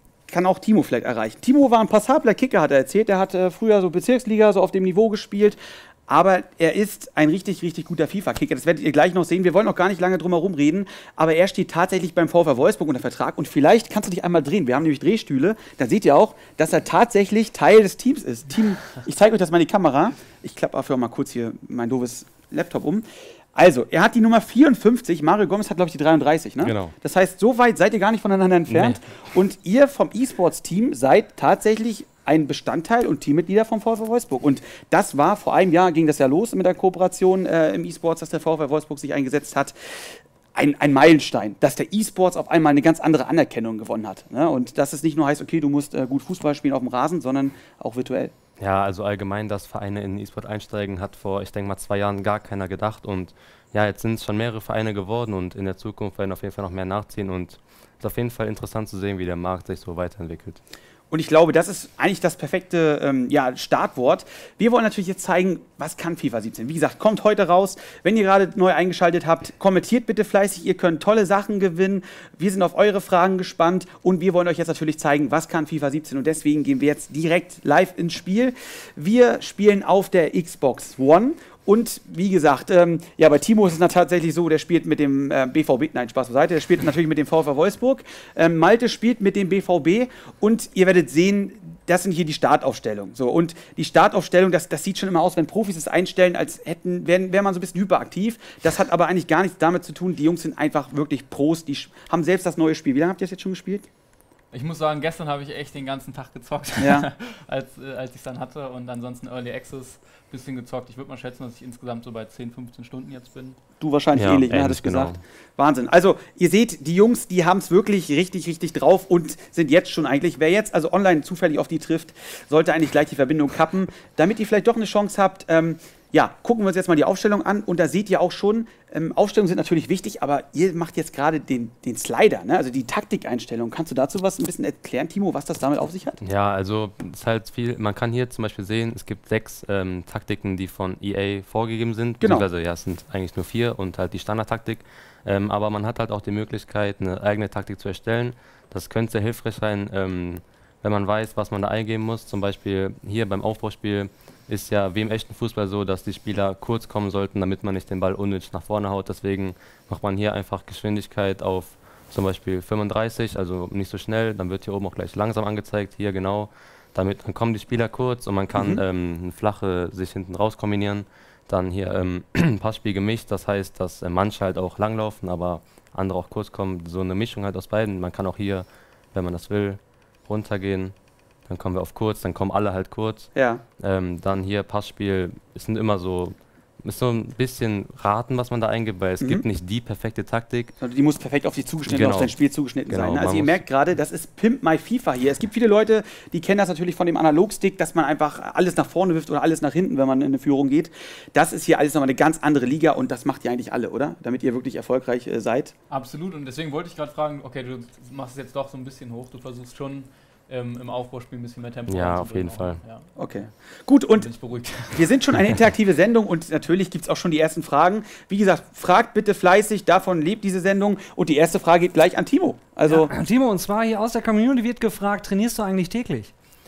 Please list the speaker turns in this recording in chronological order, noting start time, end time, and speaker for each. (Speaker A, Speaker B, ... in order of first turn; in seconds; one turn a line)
Speaker A: 0.3-48.3
Speaker B: 26.6-26.9
Speaker B: 28.7-29.0
Speaker B: 48.6-60.6
Speaker A: 61.1-103.9
Speaker C: 104.5-113.6
Speaker A: 106.8-107.1
Speaker A: 113.8-136.2
Speaker B: 114.2-115.2
Speaker B: 136.2-180.9
Speaker A: 142.2-142.5
Speaker A: 168.6-168.8
Speaker B: 181.5-190.7
Speaker A: 183.3-183.6
Speaker A: 190.8-205.7
Speaker B: 191.9-192.3
Speaker B: 192.9-193.6
Speaker C: 205.9-213.1
Speaker B: 211.9-212.8
Speaker A: 213.2-214.3
Speaker C: 214.2-215.1
Speaker A: 214.9-223.1
Speaker D: 222.9-226.3